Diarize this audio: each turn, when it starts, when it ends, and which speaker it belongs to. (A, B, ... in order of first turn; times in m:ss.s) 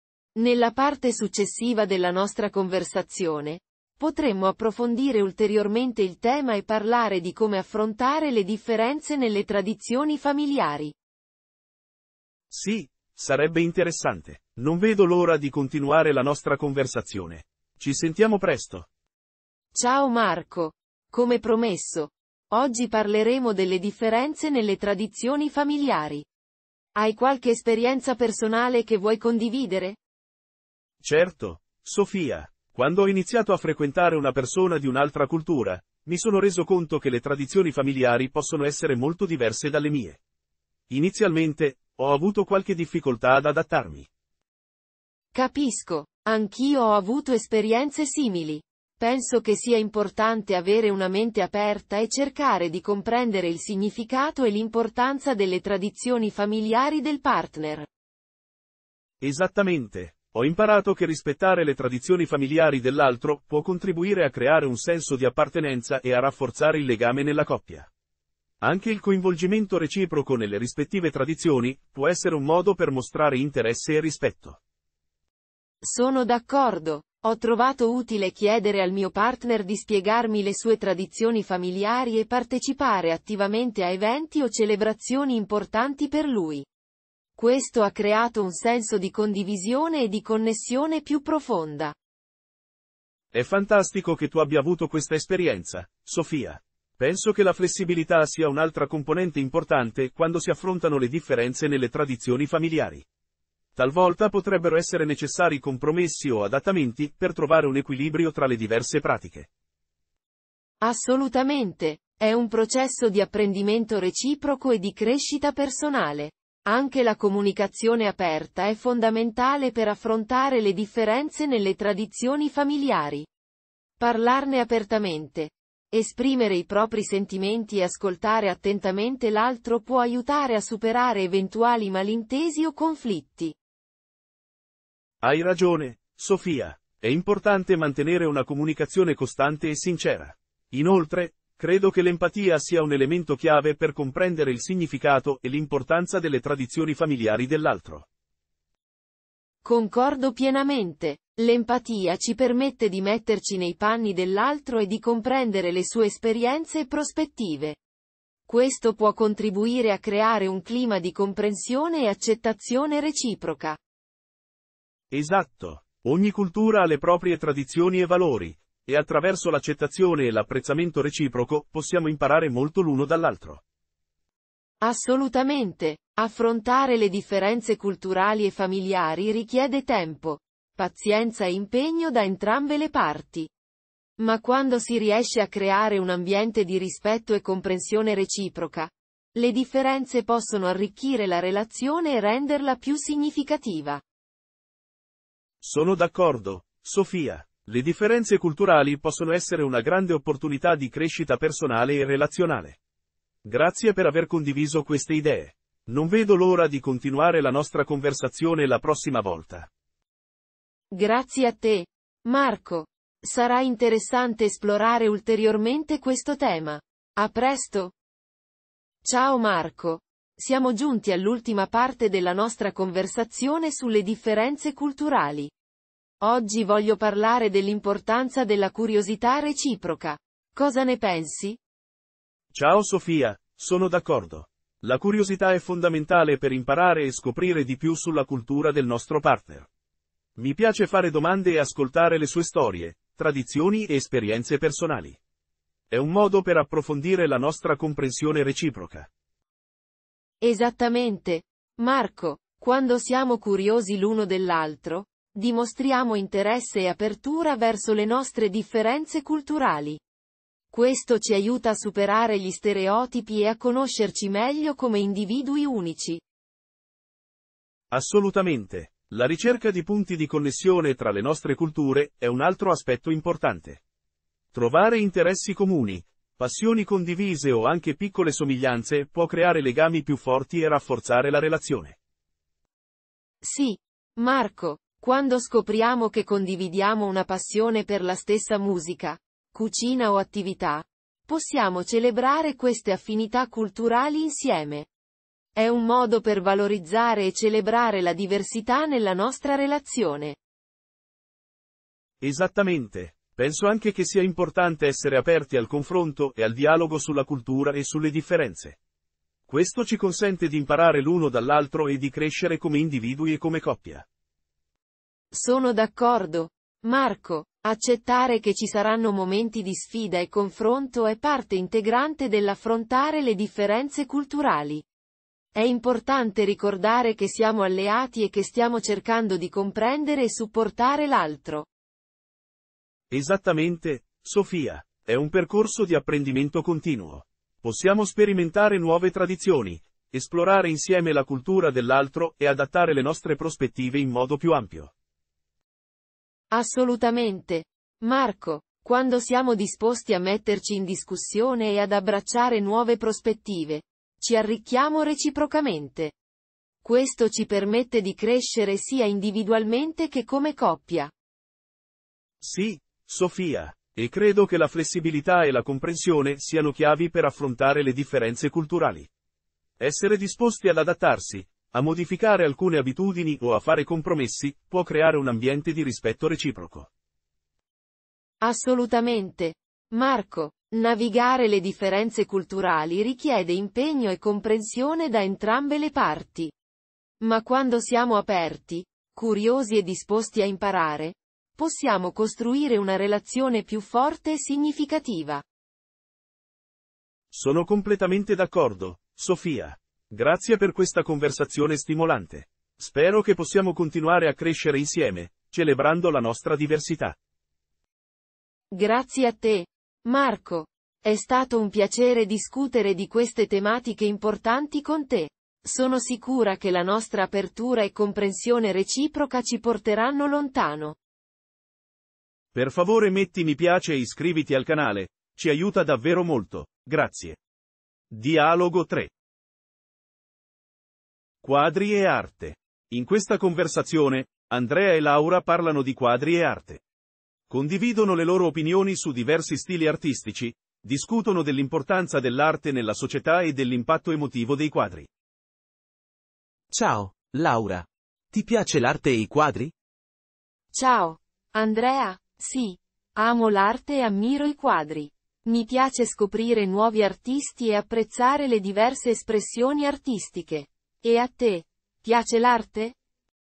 0:00.4-0:10.9 A
0:12.5-0:18.9 B
0:19.7-0:26.2 A
0:26.9-0:30.0 A
0:31.0-0:40.2 B
0:40.9-0:44.1 B
0:45.3-0:57.9 A
0:59.2-1:07.9 B
1:08.6-1:14.6 B
1:15.8-1:26.6 A
1:27.4-1:31.9 A
1:33.3-1:43.0 B
1:43.8-1:49.5 B
1:50.8-2:03.3 A
2:04.0-2:13.5 A
2:15.2-2:28.0 B
2:29.6-2:37.8 A
2:38.5-2:43.8 A
2:45.1-2:53.6 B
2:54.8-3:03.5 A
3:04.2-3:14.0 A
3:15.6-3:22.8 B
3:23.4-3:29.7 B
3:30.9-3:37.9 A
3:39.0-3:45.5 A
3:46.2-3:51.6 A
3:52.5-3:59.7 B
4:00.4-4:05.2 B
4:05.9-4:09.1 B
4:10.4-4:20.0 A
4:20.7-4:26.2 A
4:27.9-4:33.8 B
4:34.5-4:42.0 B
4:43.4-4:54.9 A
4:55.6-5:00.4 A
5:02.2-5:08.8 B
5:09.5-5:14.0 B
5:15.3-5:24.8 A
5:25.5-5:31.7 A
5:33.1-5:44.9 B
5:46.5-5:56.1 A
5:56.8-6:01.1 A
6:02.4-6:09.1 B
6:09.8-6:16.9 B
6:18.4-6:26.5 A
6:27.2-6:35.4 A
6:37.3-6:47.2 B
6:48.7-7:01.0 A
7:02.5-7:07.4 B
7:08.1-7:09.1 B
7:11.4-7:16.8 B
7:17.5-7:25.1 B
7:26.7-7:29.7 C
7:30.7-7:43.0 A